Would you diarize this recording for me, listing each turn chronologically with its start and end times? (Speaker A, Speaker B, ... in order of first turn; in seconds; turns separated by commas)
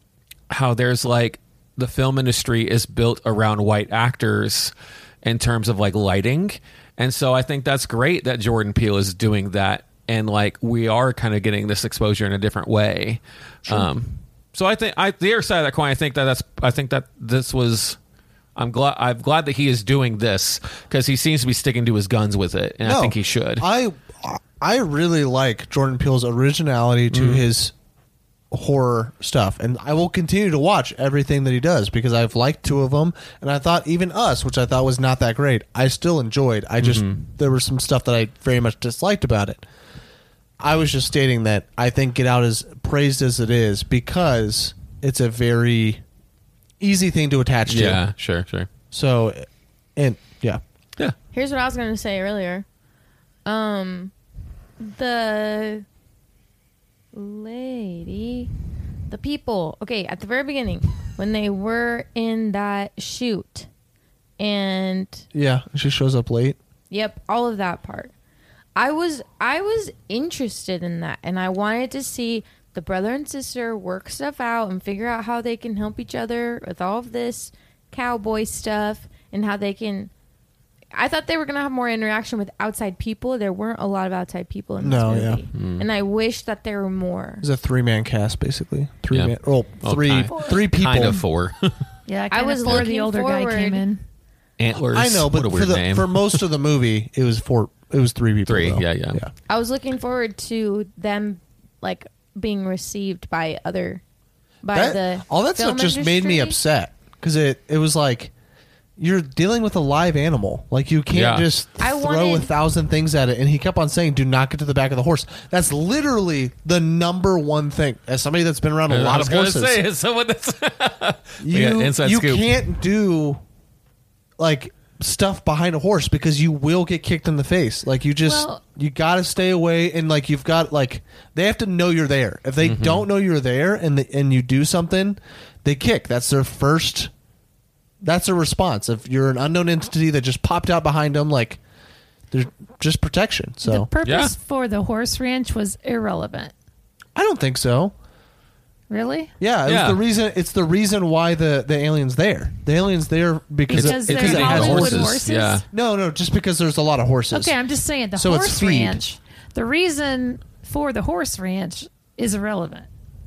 Speaker A: 0.5-4.7, Speaker A: 5.2-18.0, Speaker A: 18.6-23.6, Speaker B: 22.8-27.7, Speaker A: 27.1-27.4, Speaker B: 28.5-39.6, Speaker A: 36.8-37.3, Speaker B: 40.6-46.0, Speaker B: 46.8-48.0, Speaker A: 47.7-48.7, Speaker B: 48.9-49.5, Speaker B: 50.0-50.6, Speaker C: 51.3-52.6, Speaker C: 53.4-54.1, Speaker C: 54.8-55.8, Speaker C: 57.1-58.5, Speaker C: 59.1-63.7, Speaker C: 64.4-65.2, Speaker B: 65.3-66.6, Speaker C: 66.9-68.1, Speaker C: 68.7-80.1, Speaker C: 80.9-87.4, Speaker B: 84.8-85.4, Speaker A: 85.5-85.9, Speaker B: 87.4-91.2, Speaker A: 89.1-91.8, Speaker D: 92.1-94.0, Speaker C: 92.3-93.8, Speaker A: 94.6-96.4, Speaker B: 94.9-99.3, Speaker A: 98.5-99.2, Speaker C: 99.5-104.0, Speaker C: 104.6-106.6, Speaker B: 104.7-108.3, Speaker B: 109.0-119.8, Speaker A: 111.1-111.5, Speaker C: 111.8-112.5, Speaker A: 118.9-122.5, Speaker B: 121.4-123.4, Speaker B: 124.4-137.1, Speaker D: 128.2-128.6, Speaker A: 132.6-133.1, Speaker B: 138.0-141.6, Speaker B: 142.3-143.9, Speaker D: 143.6-146.5, Speaker A: 144.0-144.3, Speaker B: 147.2-147.9, Speaker D: 148.9-149.3, Speaker B: 149.4-155.2, Speaker A: 149.7-150.0, Speaker A: 153.7-155.6, Speaker D: 153.7-155.6, Speaker B: 155.7-157.5, Speaker D: 157.3-162.9, Speaker B: 158.2-159.0